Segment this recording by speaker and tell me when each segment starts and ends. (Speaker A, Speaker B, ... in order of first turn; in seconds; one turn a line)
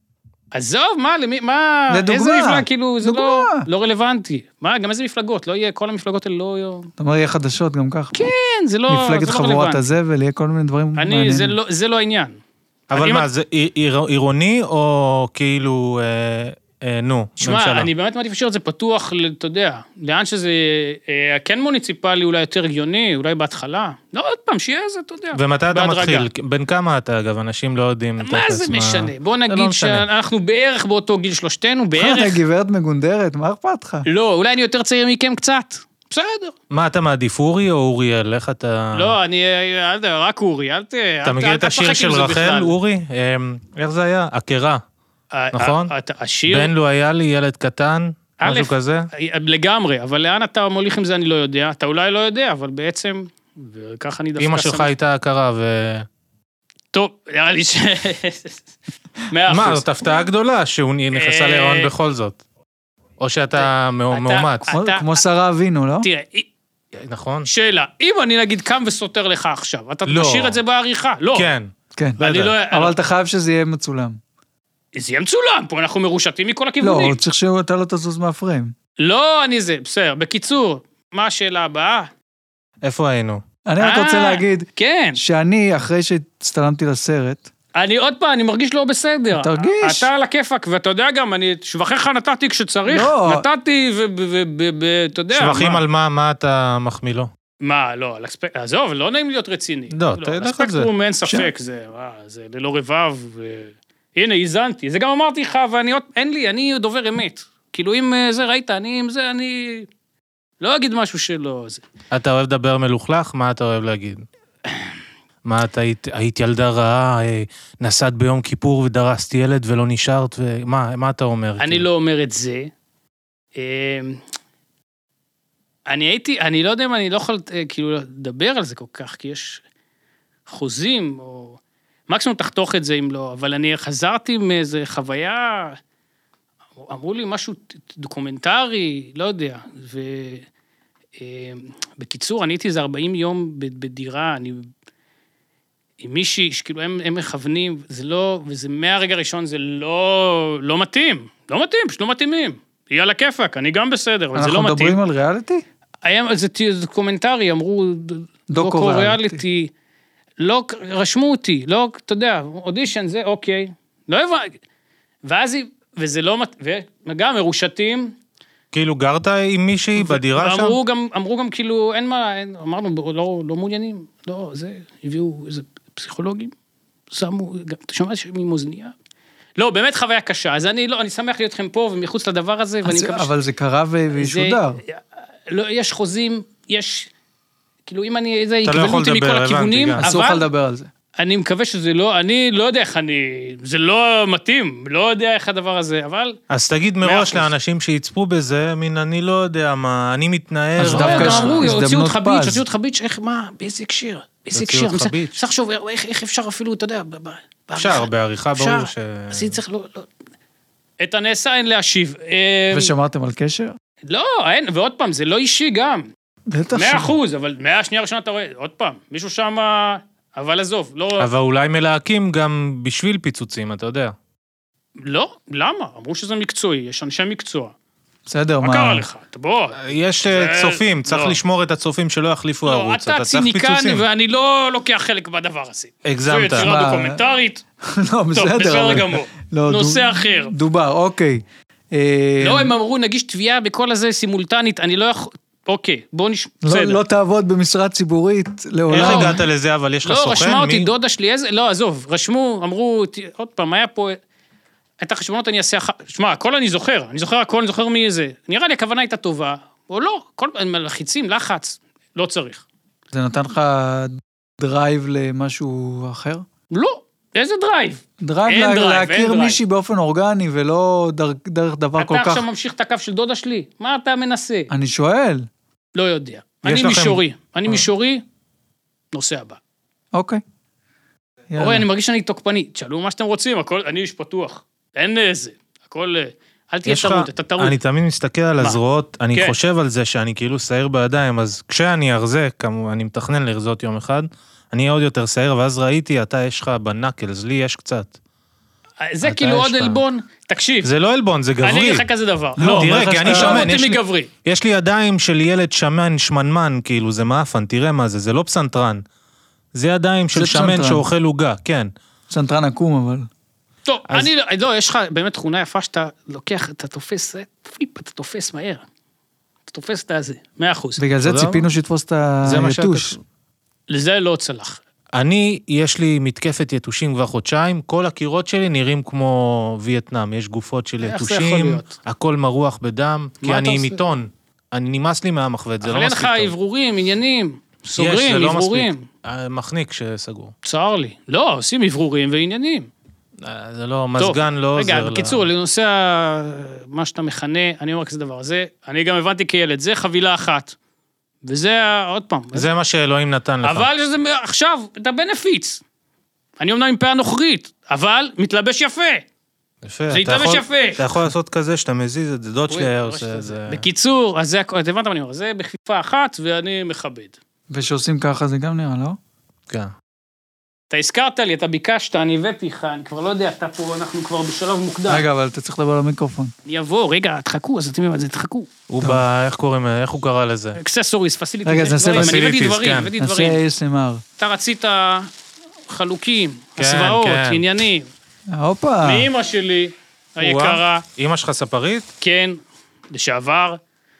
Speaker A: 0.5-6.9
Speaker B: 1.9-3.6
Speaker B: 7.0-8.3
Speaker A: 8.1-9.8
Speaker B: 8.9-11.6
Speaker A: 10.9-12.4
Speaker C: 12.9-17.9
Speaker A: 12.9-13.2
Speaker A: 17.4-26.3
Speaker C: 25.3-30.0
Speaker A: 28.2-32.4
Speaker B: 31.9-34.0
Speaker A: 34.0-36.5
Speaker C: 36.7-39.1
Speaker A: 38.9-42.7
Speaker C: 41.2-44.8
Speaker A: 45.3-46.7
Speaker C: 45.5-45.9
Speaker C: 46.5-49.1
Speaker A: 48.4-54.9
Speaker C: 54.4-56.0
Speaker A: 56.9-58.7
Speaker A: 59.3-60.0
Speaker C: 59.5-62.4
Speaker A: 61.1-61.9
Speaker C: 63.2-64.6
Speaker A: 63.5-65.2
Speaker B: 64.7-66.1
Speaker A: 66.0-66.5
Speaker C: 67.0-67.5
Speaker A: 67.4-71.5
Speaker C: 70.0-70.6
Speaker C: 71.3-71.7
Speaker B: 72.0-74.2
Speaker A: 72.2-73.0
Speaker C: 72.2-72.5
Speaker A: 74.9-77.2
Speaker B: 76.8-78.7
Speaker A: 79.0-82.1
Speaker C: 82.8-83.4
Speaker B: 83.7-87.5
Speaker A: 83.8-85.2
Speaker A: 87.7-95.8
Speaker B: 89.3-90.1
Speaker B: 92.9-93.5
Speaker C: 95.3-97.3
Speaker A: 97.6-109.9
Speaker C: 99.9-100.9
Speaker A: 110.6-111.8
Speaker C: 112.1-114.2
Speaker C: 115.4-121.8
Speaker A: 121.6-122.7
Speaker A: 123.5-124.2
Speaker A: 125.9-129.6
Speaker A: 130.5-135.8
Speaker A: 136.8-140.4
Speaker A: 141.2-144.7
Speaker A: 146.0-155.0
Speaker B: 154.3-155.6
Speaker A: 156.0-159.7
Speaker B: 158.5-159.4
Speaker A: 160.4-164.6
Speaker A: 165.2-168.2
Speaker C: 168.7-170.8
Speaker A: 169.9-176.5
Speaker A: 177.1-178.9
Speaker A: 179.6-183.3
Speaker B: 182.8-184.8
Speaker A: 184.1-187.1
Speaker A: 187.8-190.4
Speaker C: 188.6-190.0
Speaker B: 190.0-190.9
Speaker A: 191.2-196.4
Speaker C: 196.5-201.8
Speaker A: 197.0-197.5
Speaker B: 200.8-202.6
Speaker A: 200.8-210.1
Speaker C: 204.5-205.4
Speaker C: 207.8-209.6
Speaker A: 211.0-212.9
Speaker B: 212.7-213.8
Speaker A: 214.1-216.1
Speaker B: 216.5-217.1
Speaker A: 216.7-221.3
Speaker C: 221.2-224.1
Speaker A: 225.0-227.7
Speaker B: 228.2-229.1
Speaker A: 228.6-231.4
Speaker C: 229.8-234.0
Speaker A: 232.6-237.6
Speaker C: 236.0-236.7
Speaker B: 236.6-237.2
Speaker B: 237.8-242.7
Speaker A: 238.3-240.5
Speaker A: 242.4-247.0
Speaker B: 246.6-249.4
Speaker C: 248.9-250.9
Speaker A: 248.9-249.4
Speaker A: 250.0-254.2
Speaker A: 255.0-262.6
Speaker B: 263.1-266.4
Speaker A: 266.7-269.6
Speaker B: 268.2-272.4
Speaker A: 272.0-274.7
Speaker B: 274.7-275.5
Speaker A: 275.9-278.2
Speaker C: 276.6-277.8
Speaker A: 279.1-279.6
Speaker B: 280.1-280.4
Speaker B: 281.5-281.9
Speaker A: 281.6-287.8
Speaker C: 286.9-298.1
Speaker A: 299.0-300.9
Speaker C: 299.2-300.0
Speaker C: 300.8-302.1
Speaker A: 301.6-304.3
Speaker B: 302.6-303.7
Speaker C: 302.6-309.0
Speaker C: 309.7-311.9
Speaker B: 310.3-311.0
Speaker B: 312.3-313.3
Speaker A: 313.9-318.8
Speaker A: 319.7-321.0
Speaker B: 321.0-323.1
Speaker C: 321.2-321.7
Speaker C: 322.4-323.2
Speaker A: 323.9-324.8
Speaker C: 325.1-336.5
Speaker A: 331.0-331.9
Speaker A: 333.4-334.0
Speaker A: 335.8-339.1
Speaker C: 338.0-340.5
Speaker A: 340.6-342.9
Speaker C: 343.4-345.4
Speaker A: 344.2-350.7
Speaker A: 351.4-352.7
Speaker C: 352.5-353.9
Speaker A: 353.6-355.8
Speaker A: 356.6-359.2
Speaker C: 359.8-363.8
Speaker A: 360.1-361.1
Speaker A: 362.7-367.3
Speaker B: 367.7-369.2
Speaker A: 370.9-375.2
Speaker B: 375.1-376.5
Speaker A: 376.6-378.7
Speaker C: 378.9-380.8
Speaker A: 380.8-383.6
Speaker B: 381.6-382.4
Speaker C: 382.1-383.1
Speaker B: 383.2-384.2
Speaker A: 384.4-385.3
Speaker A: 385.9-388.1
Speaker C: 386.8-387.6
Speaker B: 388.5-389.3
Speaker A: 389.0-391.0
Speaker C: 390.4-392.1
Speaker A: 392.2-392.6
Speaker A: 393.1-393.8